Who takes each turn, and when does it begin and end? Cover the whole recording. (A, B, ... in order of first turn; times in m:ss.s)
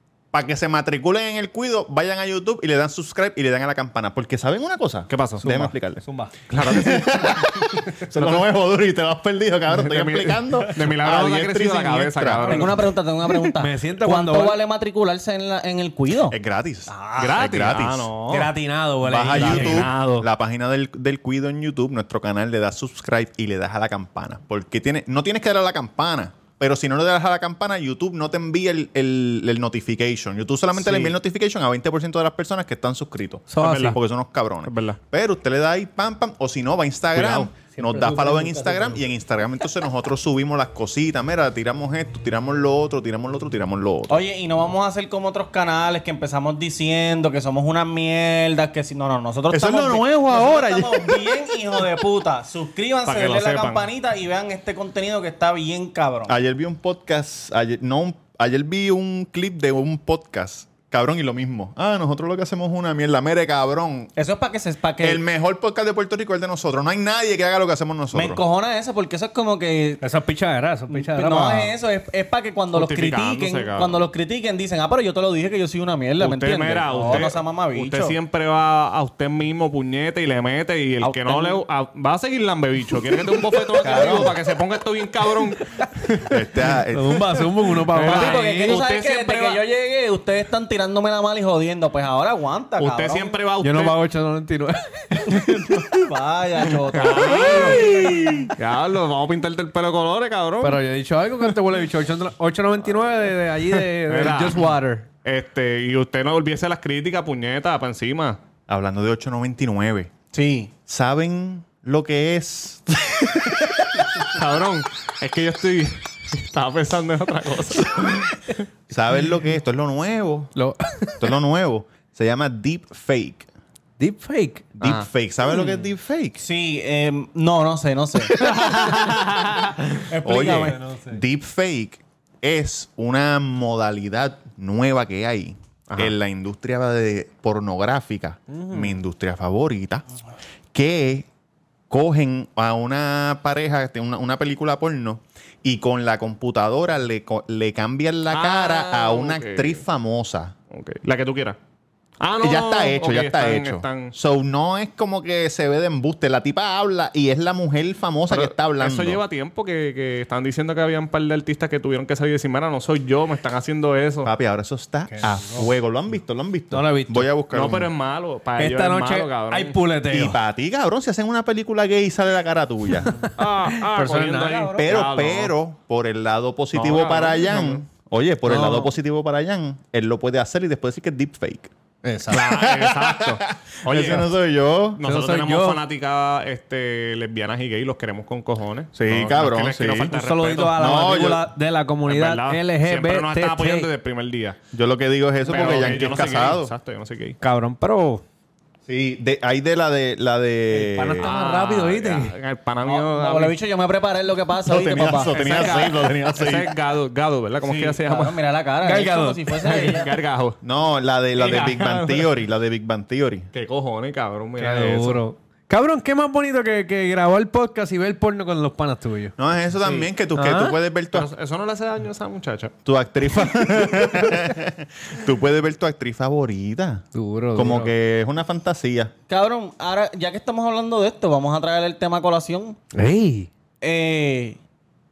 0:00.3-0:06.0 A
0:05.1-0:05.7 B
0:06.0-0:06.4 C
0:06.5-0:07.3 B
0:06.5-0:12.9 A
0:09.8-0:12.9 B
0:12.4-0:16.4 D
0:13.5-0:14.6 C
0:16.3-0:18.1 A
0:16.9-0:17.4 D
0:17.2-0:18.5 B
0:18.3-0:18.6 D
0:18.3-0:20.3 C
0:19.0-0:44.2 A
0:19.3-0:20.2 B
0:30.7-0:31.1 B
0:33.5-0:34.0 C
0:33.6-0:34.0 B
0:34.6-0:35.0 B
0:37.1-0:37.5 B
0:37.7-0:39.0 C
0:44.1-0:56.4 D
0:49.5-0:51.8 A
0:53.0-0:53.9 B
0:56.3-1:04.1 A
1:04.2-1:05.2 D
1:05.0-1:08.4 A
1:08.1-1:10.0 D
1:10.0-1:11.7 C
1:10.9-1:18.2 D
1:12.7-1:14.1 B
1:16.2-1:26.4 B
1:16.9-1:17.3 C
1:21.0-1:21.6 D
1:23.5-1:24.3 D
1:23.8-1:24.3 A
1:26.2-1:27.5 A
1:26.9-1:28.8 C
1:27.8-1:29.6 B
1:28.0-1:33.4 D
1:32.8-1:34.0 B
1:33.6-1:36.0 C
1:35.2-1:37.9 D
1:36.9-1:40.8 B
1:37.0-1:38.5 C
1:40.6-1:45.1 C
1:43.7-1:44.7 B
1:45.2-1:48.4 B
1:48.7-1:50.1 A
1:50.3-1:50.7 D
1:50.9-1:53.7 A
1:54.3-1:58.5 B
1:58.9-2:00.5 A
2:00.5-2:01.3 C
2:01.2-2:03.4 A
2:04.0-2:04.7 C
2:04.8-2:06.4 A
2:04.8-2:05.1 B
2:06.4-2:08.5 D
2:08.6-2:09.7 B
2:10.1-2:10.8 D
2:10.2-2:20.0 A
2:10.3-2:11.2 C
2:15.9-2:16.1 B
2:18.5-2:19.0 C
2:20.7-2:21.3 A
2:21.9-2:30.5 A
2:28.3-2:29.8 B
2:30.7-2:31.6 B
2:32.2-2:34.1 B
2:32.4-2:39.2 A
2:38.3-2:44.3 B
2:44.2-2:47.9 A
2:45.1-2:45.7 C
2:46.7-2:47.3 C
2:47.5-2:49.8 B
2:48.6-2:50.4 C
2:50.1-2:53.2 A
2:53.1-2:54.9 C
2:53.4-2:55.5 B
2:54.7-3:01.7 A
2:56.7-2:57.8 B
2:58.4-2:58.9 C
3:02.0-3:02.5 C
3:02.3-3:04.4 B
3:02.3-3:05.0 A
3:04.9-3:10.9 B
3:05.0-3:05.8 C
3:08.9-3:10.1 A
3:10.1-3:13.9 C
3:10.7-3:11.5 A
3:12.0-3:14.6 B
3:14.7-3:16.7 A
3:15.4-3:17.4 B
3:17.4-3:18.2 C
3:18.9-3:21.3 A
3:20.7-3:22.4 C
3:21.2-3:23.6 B
3:22.8-3:25.6 D
3:24.6-3:26.7 A
3:25.3-3:28.4 B
3:27.6-3:30.1 D
3:28.8-3:29.9 C
3:29.7-3:30.6 B
3:30.6-3:33.5 A
3:31.4-3:32.3 B
3:33.5-3:35.2 B
3:34.6-3:39.3 C
3:39.4-3:41.3 A
3:40.3-3:40.8 C
3:41.1-3:42.7 B
3:42.8-3:49.1 A
3:43.9-3:44.4 C
3:47.1-3:47.9 C
3:49.3-3:52.8 D
3:52.9-3:53.5 C
3:53.8-3:54.6 D